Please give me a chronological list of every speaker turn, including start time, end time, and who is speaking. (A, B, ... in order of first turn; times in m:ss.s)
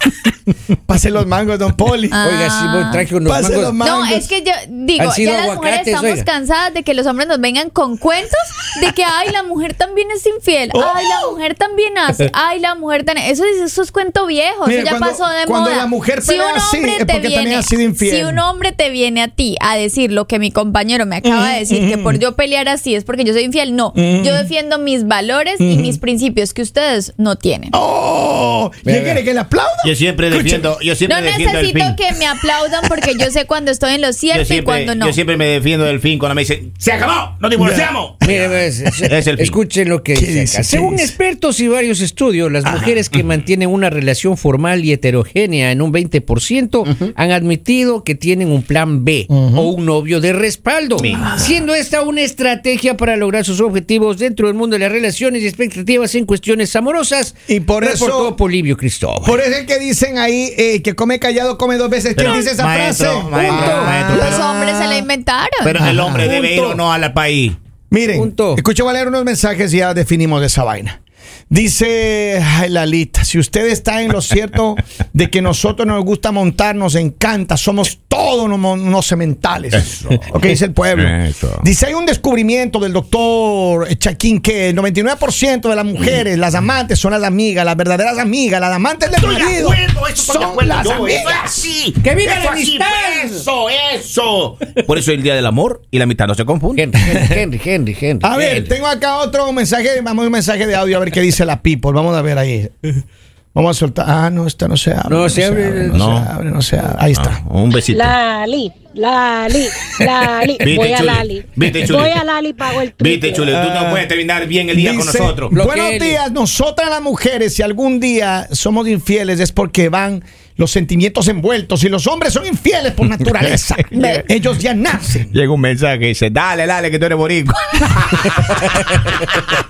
0:00.9-0:02.2 A
0:02.1-0:03.0 B
0:02.2-0:03.8 C
0:03.2-0:04.3 A
0:03.8-0:27.8 B
0:05.0-0:06.3 C
0:10.7-0:11.4 A
0:14.6-0:18.4 A
0:21.2-0:22.2 A
0:24.0-0:24.5 A
0:25.6-0:26.0 A
0:27.7-0:30.7 A
0:28.8-0:29.2 C
0:29.8-0:32.0 D
0:31.0-0:35.2 B
0:34.3-0:38.5 D
0:37.6-0:37.9 A
0:38.2-0:59.4 C
0:39.0-0:39.6 D
0:40.1-0:41.1 A
0:42.6-0:43.0 A
0:49.3-0:49.7 A
0:51.0-0:51.3 D
0:51.0-0:51.6 A
0:57.5-0:58.4 A
0:59.2-1:05.1 A
1:02.1-1:04.5 D
1:03.4-1:03.9 C
1:04.0-1:05.7 B
1:05.6-1:07.6 D
1:05.8-1:06.8 A
1:07.9-1:11.0 A
1:08.1-1:08.6 C
1:11.5-1:31.7 A
1:19.8-1:20.4 D
1:20.9-1:21.6 D
1:29.1-1:36.9 D
1:32.0-1:33.5 C
1:36.7-1:38.8 C
1:38.2-1:42.8 A
1:43.5-1:47.4 A
1:45.1-1:46.1 C
1:45.9-1:46.3 D
1:47.1-1:48.2 D
1:47.9-1:53.4 E
1:50.6-1:55.5 D
1:53.4-1:54.1 A
1:54.7-2:05.3 A
1:55.5-1:56.2 C
2:03.5-2:04.0 D
2:03.9-2:04.2 B
2:05.3-2:08.6 D